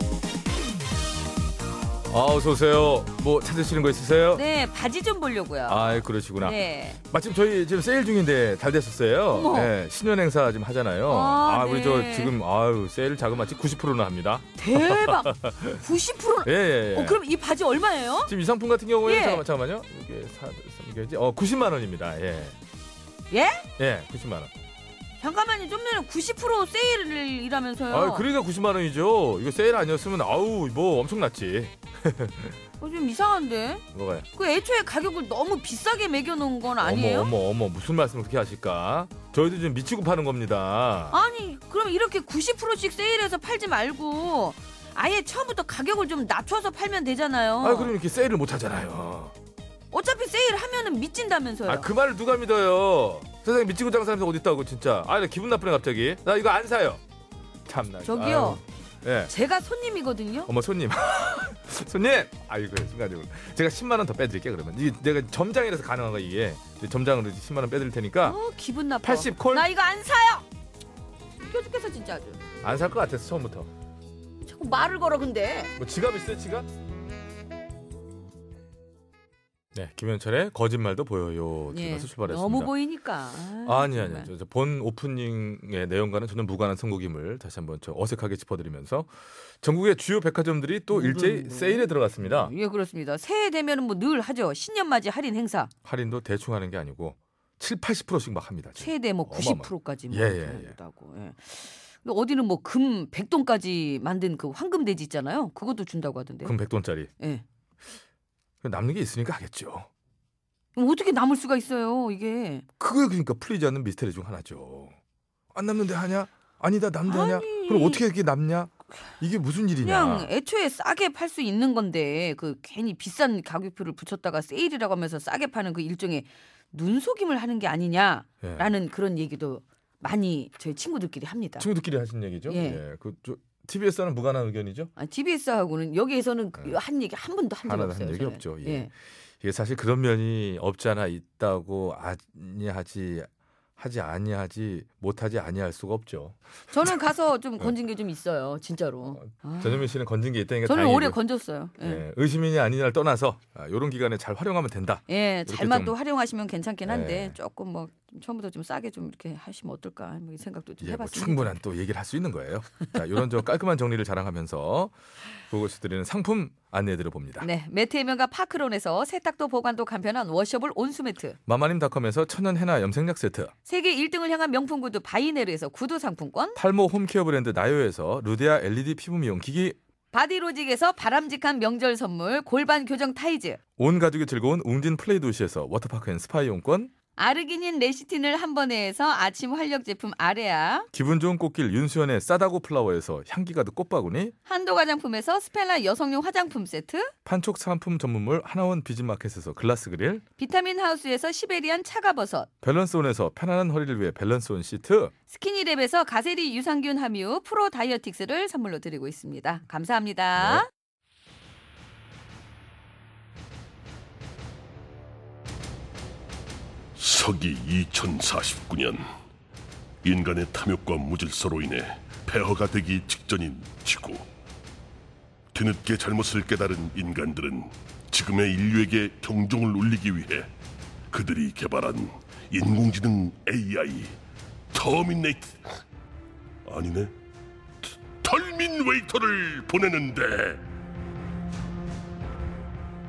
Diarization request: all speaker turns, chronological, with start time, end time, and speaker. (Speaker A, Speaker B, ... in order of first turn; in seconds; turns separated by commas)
Speaker A: 2.1-4.4, Speaker B: 4.3-7.0, Speaker A: 5.7-15.8, Speaker B: 9.3-9.7, Speaker B: 11.1-12.3, Speaker B: 14.6-18.3, Speaker A: 16.4-17.2, Speaker A: 18.2-22.6, Speaker B: 19.0-19.4, Speaker B: 23.3-23.6, Speaker A: 23.8-24.5, Speaker B: 25.2-28.2, Speaker A: 27.9-32.5, Speaker B: 32.8-37.3, Speaker A: 33.9-34.3, Speaker A: 36.8-41.2, Speaker B: 41.1-47.9, Speaker A: 47.6-49.3, Speaker B: 49.9-51.9, Speaker A: 51.7-57.0, Speaker A: 57.7-59.3, Speaker B: 58.0-58.6, Speaker B: 59.3-60.5, Speaker A: 60.5-68.4, Speaker B: 68.2-70.5, Speaker A: 69.0-69.7, Speaker B: 71.4-72.4, Speaker A: 72.6-73.7, Speaker B: 74.4-75.7, Speaker A: 75.8-76.7, Speaker A: 79.7-82.7, Speaker B: 81.7-84.3, Speaker A: 83.6-92.5, Speaker B: 90.9-95.7, Speaker A: 95.8-100.8, Speaker B: 98.8-106.5, Speaker A: 106.5-107.1, Speaker B: 107.2-107.5, Speaker A: 108.6-109.9, Speaker B: 110.7-112.7, Speaker A: 112.8-115.0, Speaker A: 115.5-120.3, Speaker B: 117.0-118.0, Speaker B: 119.8-131.7, Speaker A: 128.4-128.7, Speaker A: 131.6-134.9, Speaker B: 132.5-132.8, Speaker B: 135.0-138.9, Speaker A: 137.7-147.0, Speaker B: 146.7-149.9, Speaker A: 149.2-151.2, Speaker B: 150.7-152.0, Speaker A: 151.8-155.9, Speaker B: 155.1-161.6, Speaker A: 156.9-157.4, Speaker A: 160.8-164.9, Speaker A: 165.5-167.5, Speaker B: 167.4-171.4, Speaker A: 171.5-173.5, Speaker B: 173.7-176.6, Speaker A: 176.6-179.8, Speaker B: 180.1-183.6, Speaker A: 183.8-186.9, Speaker B: 187.2-190.9, Speaker A: 190.9-194.3, Speaker B: 194.5-197.1, Speaker A: 197.2-200.2, Speaker B: 200.4-202.5, Speaker A: 202.6-205.1, Speaker B: 205.3-210.7, Speaker A: 210.4-210.7, Speaker C: 217.0-219.1, Speaker C: 220.0-224.3, Speaker C: 225.5-230.5, Speaker C: 231.1-234.2, Speaker C: 234.7-235.8, Speaker C: 236.6-237.1, Speaker C: 237.9-240.6